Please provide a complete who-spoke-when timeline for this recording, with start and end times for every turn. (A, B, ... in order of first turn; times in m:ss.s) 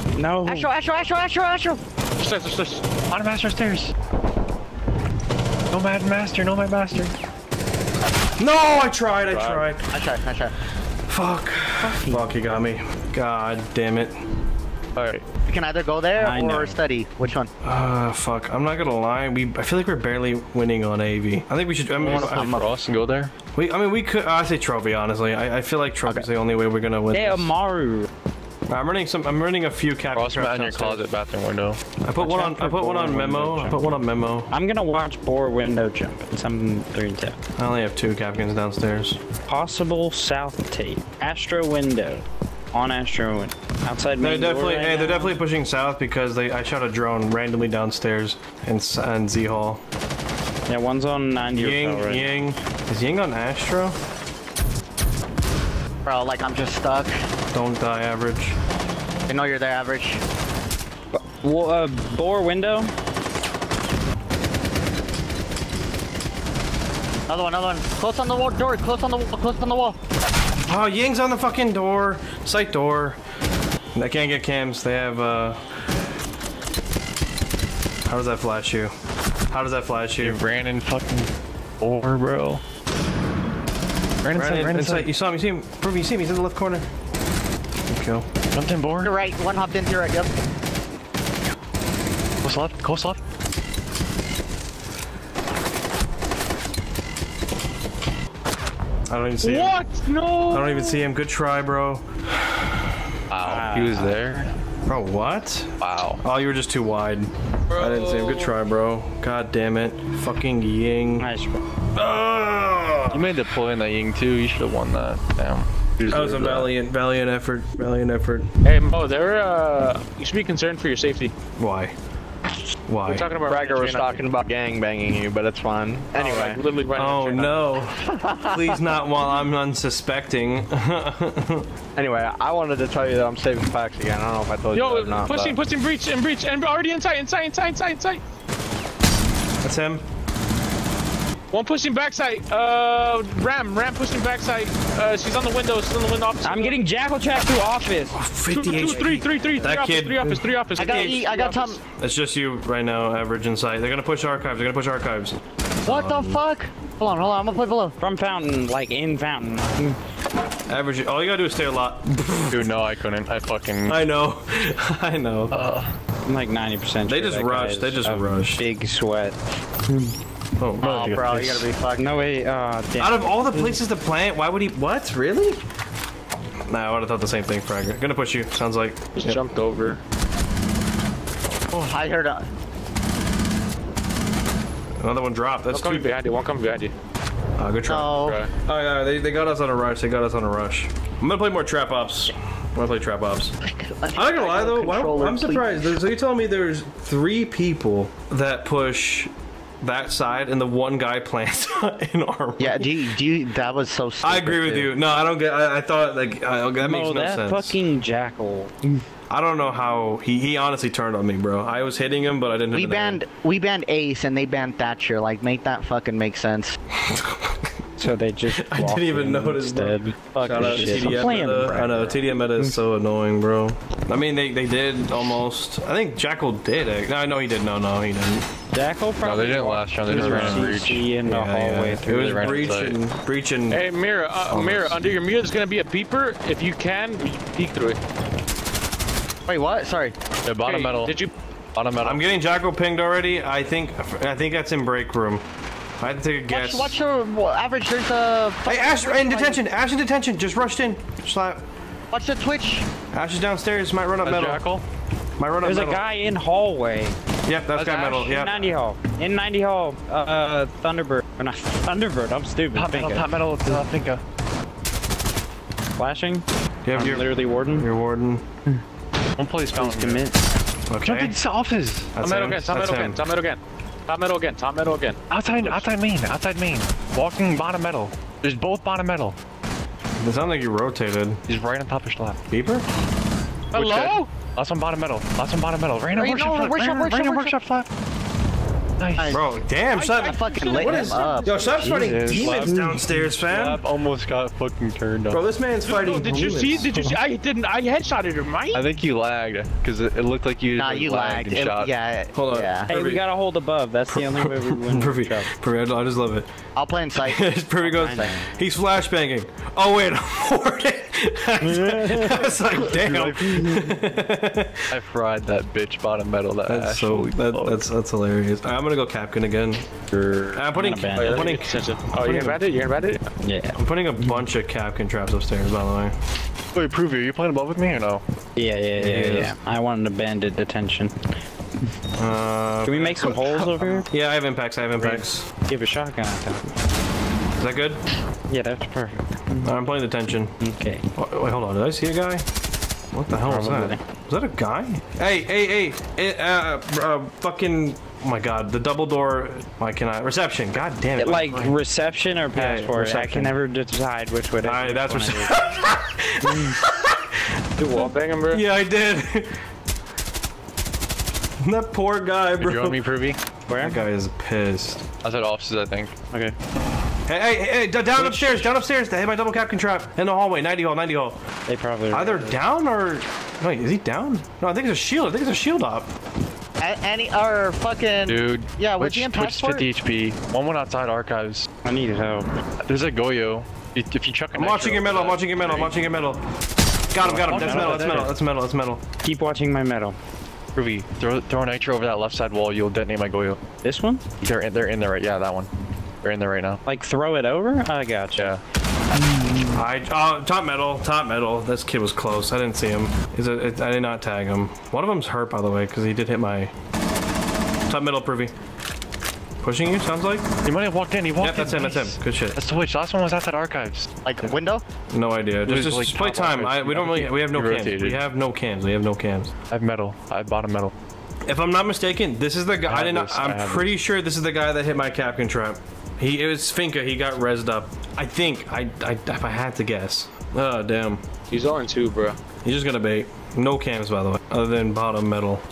0:00.2-0:00.7 A
0:00.4-0:01.8 B
0:02.2-0:02.9 C
0:03.1-0:03.9 D
0:05.7-0:07.1 D
0:08.4-0:09.9 E
0:09.3-0:09.7 C
0:09.9-0:10.5 B
0:11.1-0:14.1 E
0:11.8-0:12.4 A
0:15.0-0:15.2 D
0:15.4-0:17.5 B
0:16.2-0:16.8 A
0:17.6-0:22.6 E
0:22.0-0:22.7 B
0:22.0-0:23.3 D
0:23.5-0:27.5 E
0:27.1-0:28.1 A
0:28.7-0:31.0 E
0:30.1-0:31.8 D
0:32.0-0:34.5 E
0:32.2-0:33.8 A
0:34.5-0:37.4 A
0:37.6-0:39.2 E
0:39.5-0:45.4 A
0:44.2-0:49.8 E
0:50.7-0:52.3 A
0:51.5-0:54.0 E
0:56.0-0:57.1 B
0:57.5-0:58.6 E
0:59.3-1:00.2 B
1:01.1-1:02.9 A
1:07.3-1:10.0 B
1:10.6-1:13.2 E
1:14.0-1:15.8 E
1:18.1-1:18.9 E
1:19.5-1:20.4 E
1:20.2-1:21.3 D
1:21.8-1:22.6 D
1:24.2-1:25.1 D
1:24.3-1:26.9 E
1:27.9-1:28.3 E
1:28.5-1:29.1 D
1:29.0-1:30.3 B
1:32.4-1:33.2 D
1:39.1-1:39.8 E
1:39.4-1:41.0 C
1:40.5-1:43.0 E
1:43.3-1:44.5 D
1:43.4-1:44.2 A
1:44.9-1:51.3 E
1:45.8-1:46.2 D
1:47.7-1:48.6 C
1:51.2-1:51.6 A
1:52.0-1:53.4 E
1:53.1-1:56.7 D
1:56.1-1:58.5 E
1:58.6-2:01.3 C
2:01.6-2:01.9 E
2:02.9-2:03.3 E
2:03.0-2:04.3 C
2:03.5-2:06.6 F
2:06.1-2:07.7 C
2:07.0-2:11.7 E
2:08.1-2:08.5 B
2:12.0-2:15.6 F
2:14.7-2:18.2 C
2:19.6-2:20.0 E
2:21.5-2:26.8 C
2:26.4-2:29.0 A
2:28.1-2:31.2 E
2:28.5-2:31.8 C
2:30.8-2:31.8 B
2:31.9-2:36.4 E
2:35.9-2:38.0 B
2:38.0-2:40.0 A
2:40.7-2:42.7 E
2:42.5-2:44.0 D
2:43.9-2:45.5 E
2:45.5-2:45.9 D
2:46.3-2:50.1 A
2:47.1-2:48.6 E
2:50.6-2:51.3 E
2:50.8-2:52.2 B
2:50.8-2:51.7 D
2:52.0-2:53.8 A
2:53.0-2:55.6 E
2:56.7-2:59.4 E
2:59.2-3:00.0 C
3:01.7-3:02.5 B
3:05.0-3:06.1 E
3:05.7-3:06.9 C
3:07.6-3:13.6 E
3:07.9-3:08.4 B
3:08.2-3:08.5 C
3:13.7-3:16.0 B
3:14.1-3:22.9 E
3:22.6-3:24.9 B
3:24.2-3:27.8 E
3:26.8-3:29.0 A
3:29.3-3:33.2 E
3:32.7-3:36.8 B
3:36.9-3:37.8 E
3:38.0-3:42.8 A
3:38.5-3:48.5 E
3:40.5-3:41.2 D
3:48.7-3:52.8 A
3:49.2-3:51.1 D
3:50.0-3:50.7 E
3:51.2-3:53.8 E
3:52.2-3:53.0 D
3:53.7-3:58.0 C
3:54.5-3:55.0 E
3:59.5-4:00.2 B
4:00.5-4:01.1 D
4:00.6-4:01.3 C
4:01.8-4:02.2 D
4:02.0-4:05.4 E
4:06.0-4:07.0 E
4:06.5-4:09.6 B
4:08.7-4:11.6 E
4:12.1-4:12.9 B
4:13.1-4:14.6 E
4:14.2-4:14.8 D
4:15.4-4:16.0 E
4:15.6-4:17.2 A
4:17.5-4:18.8 E
4:17.8-4:23.8 A
4:22.7-4:24.2 D
4:26.0-4:27.9 A
4:26.8-4:28.5 E
4:29.4-4:30.3 D
4:29.7-4:30.4 A
4:30.9-4:31.4 E
4:31.0-4:32.1 D
4:32.1-4:33.2 E
4:32.2-4:35.7 C
4:35.3-4:39.4 D
4:40.2-4:41.4 E
4:41.5-4:42.4 D
4:42.5-4:42.8 E
4:43.7-4:44.3 C
4:43.8-4:44.1 E
4:43.8-4:47.9 D
4:46.1-4:47.6 B
4:49.0-4:49.4 D
4:49.2-4:51.7 B
4:49.3-4:53.8 E
4:50.0-4:51.8 C
4:51.8-4:53.0 A
4:51.8-4:55.4 D
4:55.3-4:57.2 E
4:55.8-4:58.8 C
4:58.7-5:01.9 D
5:00.7-5:02.9 B
5:02.4-5:03.2 E
5:02.9-5:05.5 A
5:04.1-5:06.5 E
5:06.8-5:07.4 B
5:07.2-5:14.9 E
5:07.8-5:08.5 A
5:08.0-5:08.4 B
5:11.7-5:12.4 A
5:12.9-5:13.6 D
5:13.6-5:13.9 A
5:14.9-5:17.8 D
5:16.7-5:19.9 E
5:20.2-5:21.6 A
5:20.5-5:22.6 E
5:21.2-5:23.3 C
5:23.4-5:24.4 A
5:23.8-5:26.2 E
5:26.7-5:28.2 D
5:28.6-5:31.3 A
5:29.0-5:29.6 E
5:32.2-5:35.5 E
5:32.8-5:34.1 A
5:35.7-5:36.6 A
5:37.6-5:38.0 E
5:38.5-5:39.7 A
5:39.6-5:40.5 E
5:40.6-5:41.1 A
5:41.2-5:42.4 E
5:43.1-5:51.7 E
5:43.5-5:44.0 A
5:51.2-5:55.5 A
5:51.3-5:51.7 D
5:52.5-5:53.6 E
5:54.6-5:59.6 E
5:56.4-5:56.8 A
5:57.8-5:58.6 C
6:01.6-6:03.0 E
6:02.6-6:03.4 D
6:03.7-6:04.0 A
6:03.8-6:05.0 E
6:05.2-6:06.5 D
6:07.3-6:11.4 E
6:08.2-6:08.6 A
6:11.7-6:12.6 A
6:12.1-6:16.1 E
6:16.8-6:19.9 B
6:18.3-6:21.7 D
6:21.8-6:22.5 A
6:22.8-6:26.0 D
6:24.5-6:26.4 E
6:27.1-6:29.0 E
6:27.2-6:28.4 D
6:27.2-6:28.3 A
6:29.2-6:30.2 A
6:30.8-6:33.6 D
6:33.8-6:34.2 A
6:34.4-6:35.7 D
6:36.2-6:36.8 D
6:36.8-6:38.6 A
6:39.1-6:39.8 A
6:39.7-6:46.7 E
6:47.9-6:48.5 E
6:49.6-6:50.5 E
6:50.6-6:54.1 D
6:51.4-6:52.6 E
6:54.2-6:54.8 B
6:55.1-6:59.5 E
6:55.7-6:58.2 D
6:59.7-7:00.9 D
7:01.5-7:11.2 E
7:02.9-7:03.9 D
7:11.5-7:12.4 C
7:12.6-7:15.6 E